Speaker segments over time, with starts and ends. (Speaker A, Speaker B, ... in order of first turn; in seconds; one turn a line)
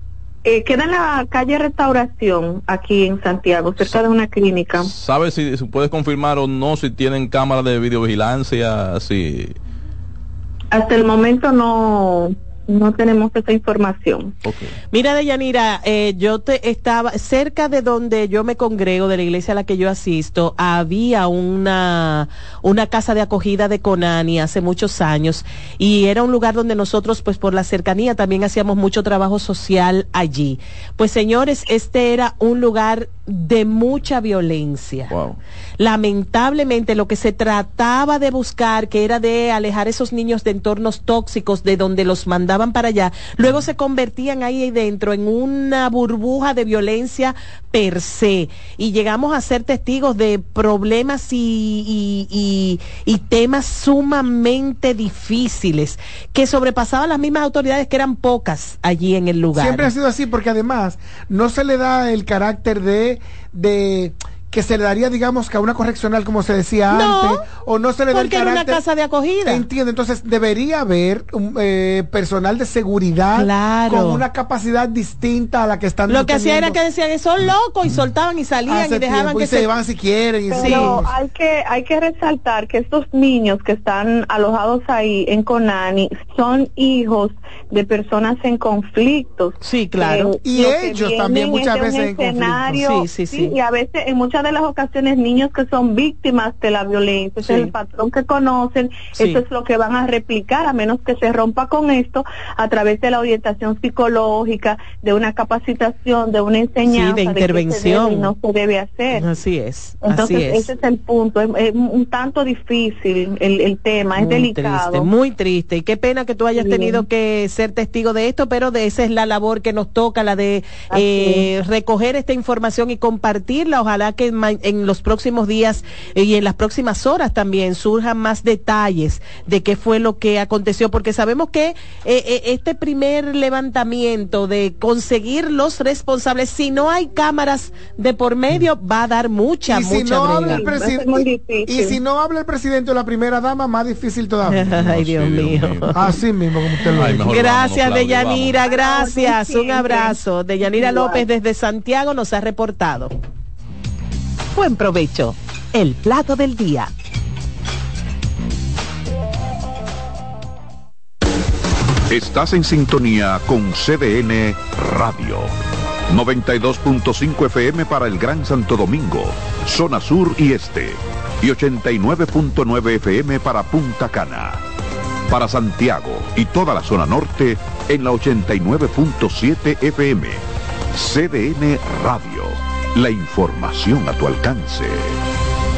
Speaker A: 0.5-4.9
Speaker B: 4.8-9.6
Speaker A: 10.7-14.3
Speaker B: 14.4-14.7
Speaker C: 14.9-35.1
Speaker B: 35.1-35.4
Speaker C: 35.8-59.9
Speaker D: 59.5-68.8
Speaker C: 66.9-67.4
Speaker C: 68.1-69.7
Speaker D: 69.5-76.8
Speaker C: 73.3-74.2
Speaker C: 76.1-79.7
Speaker D: 78.7-81.1
Speaker A: 80.5-109.2
Speaker C: 80.5-81.0
Speaker C: 89.6-90.3
Speaker D: 90.4-92.8
Speaker C: 92.8-93.6
Speaker C: 97.4-97.7
Speaker C: 99.1-99.4
Speaker C: 106.9-108.3
Speaker C: 109.1-110.7
Speaker A: 110.0-115.1
Speaker C: 114.2-140.7
Speaker A: 116.5-117.0
Speaker A: 120.9-121.5
Speaker D: 139.7-144.7
Speaker A: 140.5-142.0
Speaker C: 144.4-146.1
Speaker B: 144.7-146.0
Speaker D: 145.9-147.3
Speaker C: 146.9-153.1
Speaker B: 146.9-148.6
Speaker A: 148.6-151.2
Speaker C: 154.6-156.9
Speaker E: 162.1-165.5
Speaker E: 166.1-174.6
Speaker E: 175.3-185.2